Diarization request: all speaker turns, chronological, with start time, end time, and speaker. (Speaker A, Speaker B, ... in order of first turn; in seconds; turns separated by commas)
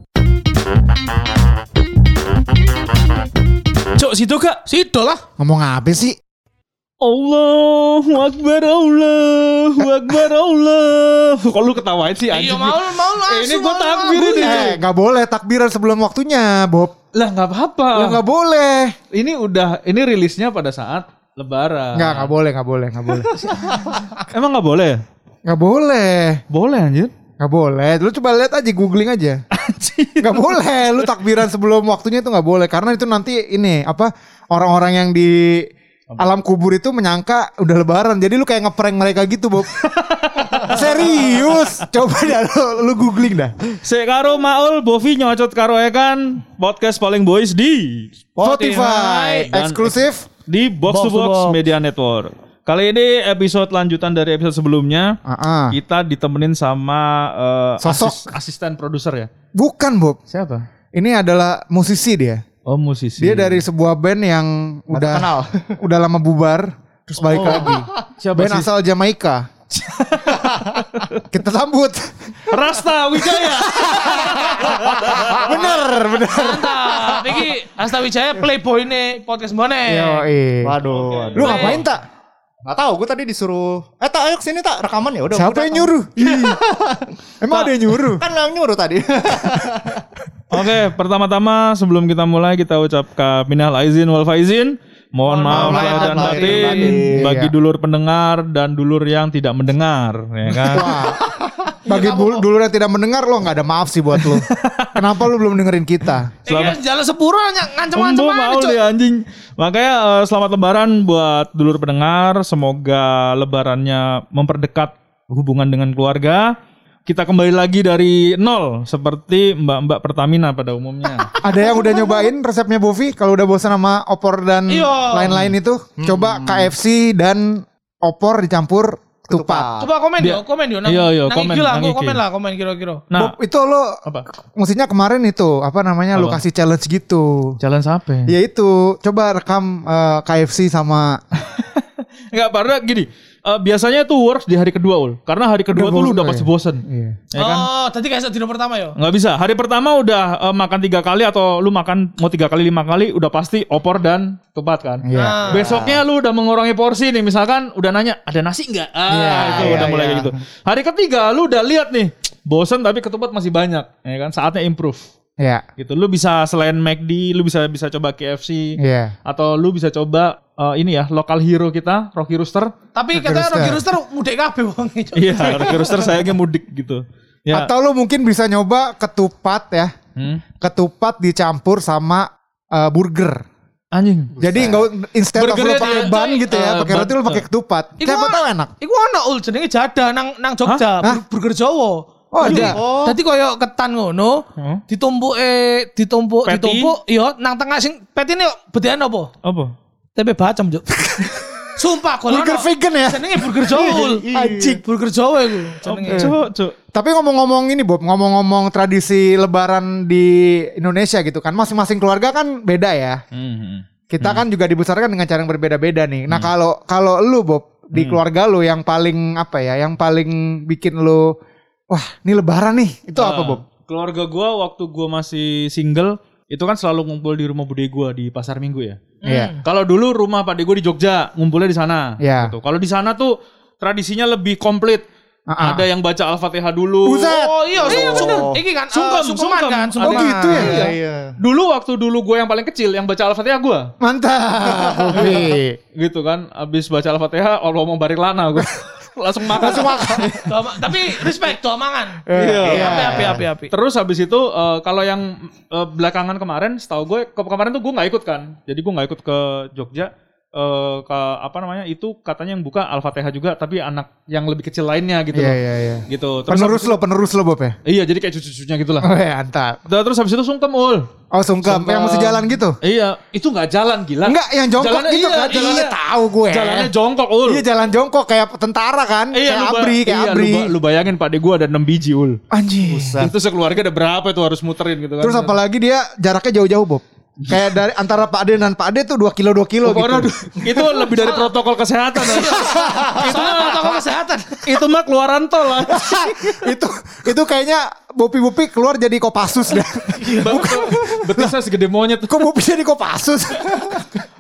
Speaker A: 4.0-5.2, Speaker B: 5.4-6.2, Speaker C: 7.0-14.8, Speaker A: 12.3-14.8, Speaker B: 14.4-16.9, Speaker C: 17.1-18.2, Speaker B: 17.9-19.0, Speaker C: 19.1-22.3, Speaker B: 21.9-24.0, Speaker C: 23.3-25.0, Speaker B: 25.5-26.4, Speaker C: 26.5-27.1, Speaker B: 27.4-29.4, Speaker C: 29.5-30.6, Speaker B: 30.2-39.8, Speaker C: 39.7-41.7, Speaker B: 40.6-43.5, Speaker C: 43.8-48.1, Speaker A: 48.4-49.5, Speaker B: 48.4-50.3, Speaker C: 49.5-49.9, Speaker C: 50.5-55.1, Speaker A: 50.9-51.6, Speaker B: 55.3-55.8, Speaker C: 55.7-59.3, Speaker B: 57.8-58.3, Speaker B: 59.6-60.2, Speaker C: 60.3-60.6, Speaker B: 61.0-62.4, Speaker C: 62.7-63.6, Speaker B: 63.2-69.5, Speaker D: 64.9-65.8, Speaker C: 67.3-68.7, Speaker D: 67.3-67.8, Speaker C: 69.8-71.2, Speaker D: 70.4-70.8, Speaker B: 71.3-72.6, Speaker C: 72.5-75.7, Speaker B: 73.2-77.4, Speaker D: 75.0-75.7, Speaker A: 76.2-80.2, Speaker B: 79.9-80.8, Speaker D: 80.7-81.8, Speaker C: 80.9-81.7, Speaker B: 81.4-82.0, Speaker A: 81.4-81.8, Speaker D: 82.7-90.0, Speaker B: 85.3-86.6, Speaker B: 87.4-88.2, Speaker C: 90.5-101.0, Speaker A: 95.3-97.0, Speaker D: 95.5-97.3, Speaker B: 95.5-96.3, Speaker B: 97.2-97.5, Speaker B: 100.6-101.2, Speaker A: 101.8-102.4, Speaker B: 101.8-106.3, Speaker C: 104.5-105.0, Speaker A: 106.5-108.8, Speaker C: 106.5-106.8, Speaker C: 108.0-116.5, Speaker C: 117.1-121.3, Speaker B: 121.4-129.7, Speaker A: 121.4-122.3, Speaker A: 124.7-125.3, Speaker D: 126.0-126.7, Speaker D: 129.3-129.9, Speaker A: 129.8-133.0, Speaker C: 130.2-132.2, Speaker B: 133.2-134.0, Speaker B: 134.6-137.6, Speaker C: 136.2-136.4, Speaker C: 137.6-138.3, Speaker B: 138.3-141.2, Speaker C: 141.5-146.8, Speaker B: 145.7-147.2, Speaker C: 147.3-147.7, Speaker A: 147.4-148.9, Speaker C: 149.0-165.0, Speaker B: 155.0-155.6, Speaker A: 155.1-155.6, Speaker D: 155.5-156.0, Speaker B: 159.1-160.4, Speaker D: 159.4-160.0, Speaker C: 165.8-172.7, Speaker B: 168.8-169.1, Speaker A: 172.9-176.1, Speaker B: 173.1-173.8, Speaker C: 175.2-177.7, Speaker B: 177.5-179.9, Speaker C: 180.2-180.4, Speaker B: 180.6-183.4, Speaker C: 183.9-184.3, Speaker D: 184.4-184.9, Speaker B: 184.4-188.7, Speaker C: 185.4-187.4, Speaker A: 188.0-199.3, Speaker B: 192.3-192.8, Speaker D: 192.4-193.2, Speaker C: 194.6-194.8, Speaker C: 196.5-196.9, Speaker C: 199.4-199.7, Speaker A: 200.2-204.2, Speaker B: 202.3-203.5, Speaker D: 203.6-204.8, Speaker B: 204.3-204.8, Speaker A: 204.8-206.3, Speaker C: 205.9-206.8, Speaker B: 206.1-206.4, Speaker B: 206.9-213.2, Speaker C: 213.3-214.4, Speaker B: 214.1-221.3, Speaker C: 217.9-218.2, Speaker B: 221.9-223.6, Speaker C: 223.2-229.0, Speaker A: 229.2-229.6, Speaker B: 229.2-229.5, Speaker C: 229.6-235.0, Speaker B: 232.2-232.5, Speaker B: 235.5-235.9, Speaker C: 235.6-243.9, Speaker B: 237.1-237.6, Speaker A: 237.3-240.8, Speaker D: 237.7-238.6, Speaker B: 240.0-240.9, Speaker D: 240.6-241.3, Speaker B: 244.0-245.8, Speaker D: 244.8-245.3, Speaker C: 245.1-250.4, Speaker D: 249.6-250.3, Speaker B: 249.6-250.3, Speaker A: 250.4-252.2, Speaker B: 252.3-253.4, Speaker C: 252.3-267.0, Speaker D: 252.6-253.4, Speaker A: 252.7-253.7, Speaker B: 265.3-267.8, Speaker C: 267.9-269.1, Speaker B: 269.0-269.8, Speaker C: 269.9-271.1, Speaker B: 271.3-272.8, Speaker C: 271.6-276.0, Speaker B: 274.2-276.9, Speaker C: 276.5-277.6, Speaker B: 277.5-280.7, Speaker C: 279.3-282.4, Speaker B: 282.5-283.2, Speaker D: 282.8-283.3, Speaker C: 283.2-285.6, Speaker B: 285.2-291.1, Speaker C: 289.8-293.9, Speaker A: 291.2-291.5, Speaker A: 292.2-294.7, Speaker B: 292.8-293.1, Speaker C: 294.6-296.6, Speaker B: 295.9-301.5, Speaker A: 300.2-300.7, Speaker C: 300.4-302.4, Speaker B: 302.3-304.2